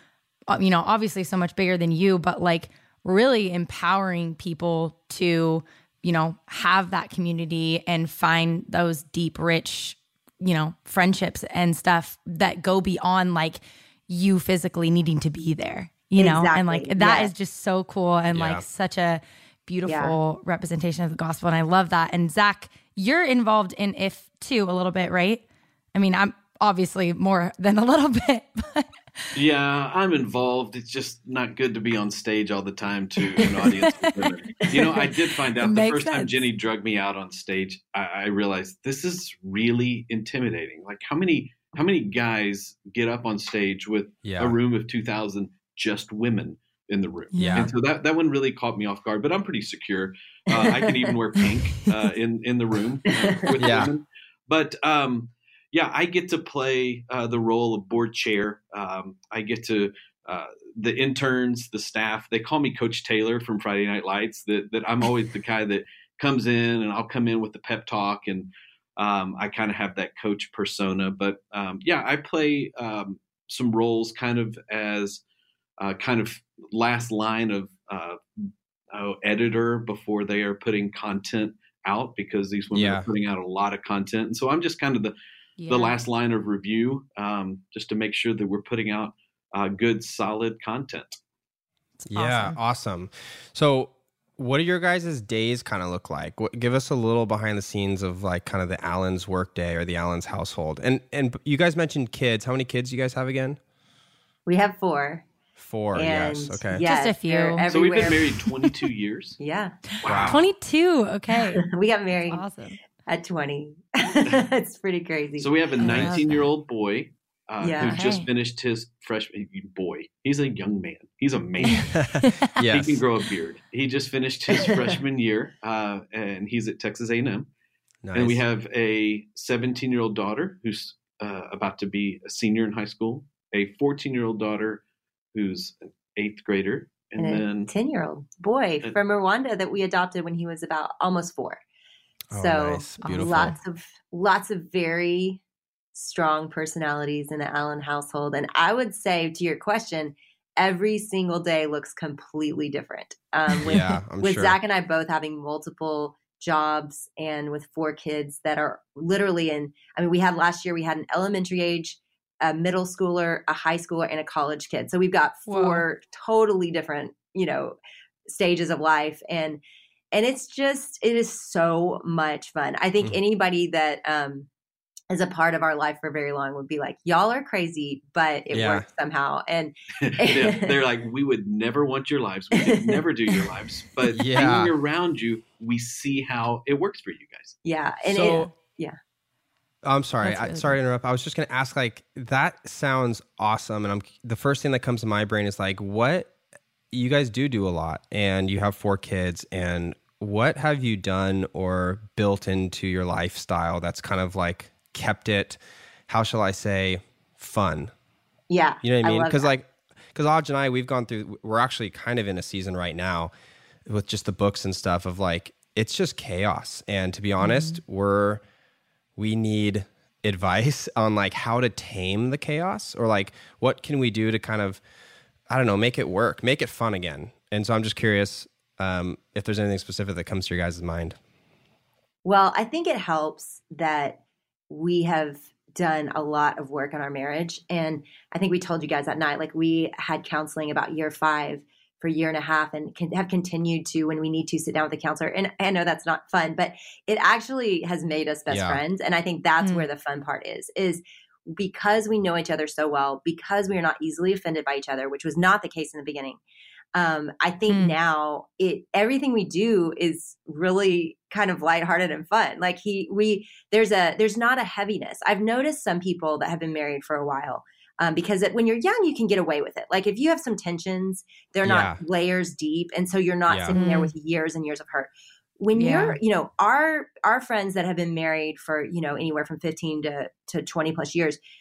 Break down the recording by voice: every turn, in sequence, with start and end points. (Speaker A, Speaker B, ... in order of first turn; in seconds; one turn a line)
Speaker A: 0.5-29.3
Speaker B: 16.2-17.3
Speaker C: 18.3-18.7
Speaker B: 19.9-20.2
Speaker D: 29.4-75.2
Speaker A: 33.4-36.5
Speaker C: 44.2-44.5
Speaker A: 47.3-47.7
Speaker C: 47.4-47.7
Speaker B: 50.5-51.1
Speaker B: 53.2-53.6
Speaker C: 53.6-53.9
Speaker D: 75.8-78.2
Speaker D: 78.9-85.1
Speaker C: 82.7-83.1
Speaker A: 85.6-86.0
Speaker D: 85.7-91.2
Speaker A: 92.0-92.6
Speaker C: 92.1-103.6
Speaker B: 104.5-105.3
Speaker C: 105.6-106.8
Speaker B: 105.9-108.5
Speaker A: 106.8-107.6
Speaker D: 107.7-109.4
Speaker B: 109.4-109.8
Speaker D: 110.0-110.4
Speaker C: 110.0-110.4
Speaker A: 110.2-111.6
Speaker B: 111.5-112.4
Speaker A: 112.3-112.8
Speaker B: 113.1-116.0
Speaker D: 115.4-127.5
Speaker A: 115.8-116.5
Speaker B: 117.6-118.0
Speaker A: 117.8-118.3
Speaker A: 121.6-122.5
Speaker C: 121.9-123.0
Speaker C: 128.0-128.4
Speaker D: 128.1-134.8
Speaker D: 135.3-137.7
Speaker B: 137.2-141.6
Speaker C: 142.3-143.6
Speaker B: 142.3-145.4
Speaker A: 143.0-143.4
Speaker B: 145.9-167.8
Speaker C: 153.6-154.6
Speaker A: 153.7-153.9
Speaker A: 165.5-165.8
Speaker B: 168.3-169.6
Speaker B: 170.1-174.5
Speaker B: 175.1-180.8
Speaker C: 178.5-178.9
Speaker D: 180.0-187.6
Speaker B: 182.5-183.4
Speaker C: 184.1-184.7
Speaker B: 187.7-188.9
Speaker C: 188.1-188.5
Speaker C: 189.8-196.3
Speaker A: 190.2-190.8
Speaker C: 196.9-207.9
Speaker B: 208.5-209.5
Speaker C: 208.8-213.3
Speaker C: 213.8-218.4
Speaker A: 217.4-217.8
Speaker C: 219.2-224.8
Speaker C: 225.5-231.2
Speaker B: 232.2-234.2
Speaker B: 234.7-256.4
Speaker C: 248.5-248.8
Speaker B: 256.9-281.4
Speaker A: 257.7-257.9
Speaker C: 271.6-272.0
Speaker C: 273.5-273.8
Speaker A: 273.7-274.1
Speaker A: 275.7-276.2